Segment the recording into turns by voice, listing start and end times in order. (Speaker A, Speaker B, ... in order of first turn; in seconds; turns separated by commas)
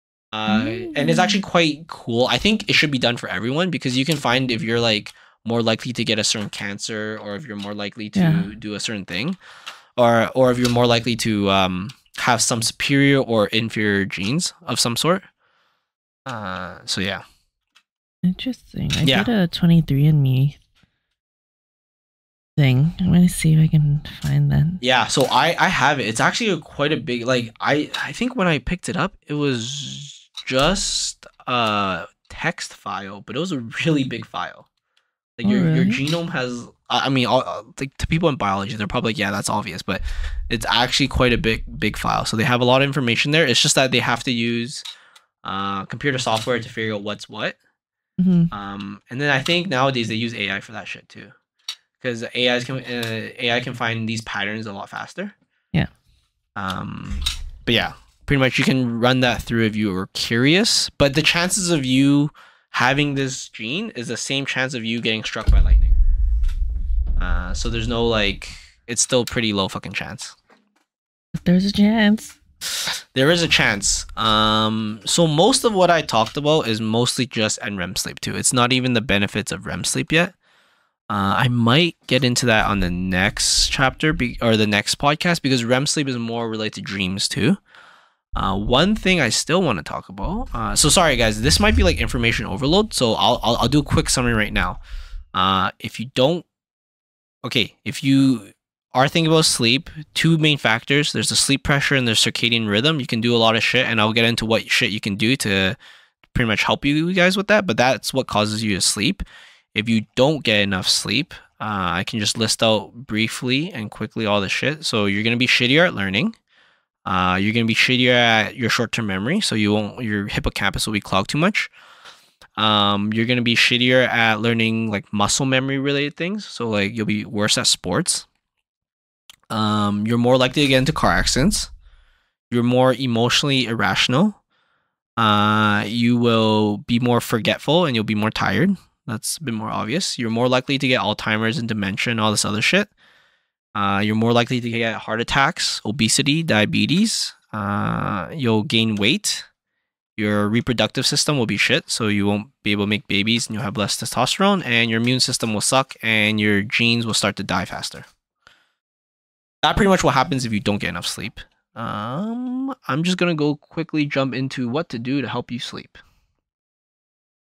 Speaker A: 0.3-9.4, Speaker B: 0.5-1.4, Speaker B: 8.2-8.5, Speaker A: 10.0-15.3, Speaker A: 16.3-17.2, Speaker B: 18.2-20.6, Speaker A: 19.0-19.3, Speaker B: 22.6-24.8, Speaker A: 24.8-34.7, Speaker A: 35.4-44.8, Speaker B: 35.4-36.0, Speaker A: 45.4-47.6, Speaker B: 48.2-48.5, Speaker A: 48.5-51.3, Speaker A: 52.0-55.3, Speaker A: 56.6-66.0, Speaker A: 67.2-70.4, Speaker B: 71.4-72.4, Speaker A: 72.8-80.3, Speaker A: 81.1-87.6, Speaker A: 88.3-94.8, Speaker A: 95.3-96.5, Speaker A: 97.4-105.8, Speaker A: 106.3-116.4, Speaker A: 117.0-121.7, Speaker A: 122.6-128.3, Speaker A: 129.5-131.7, Speaker A: 132.5-134.4, Speaker A: 135.2-142.9, Speaker A: 143.8-149.5, Speaker A: 150.2-158.1, Speaker A: 159.6-166.0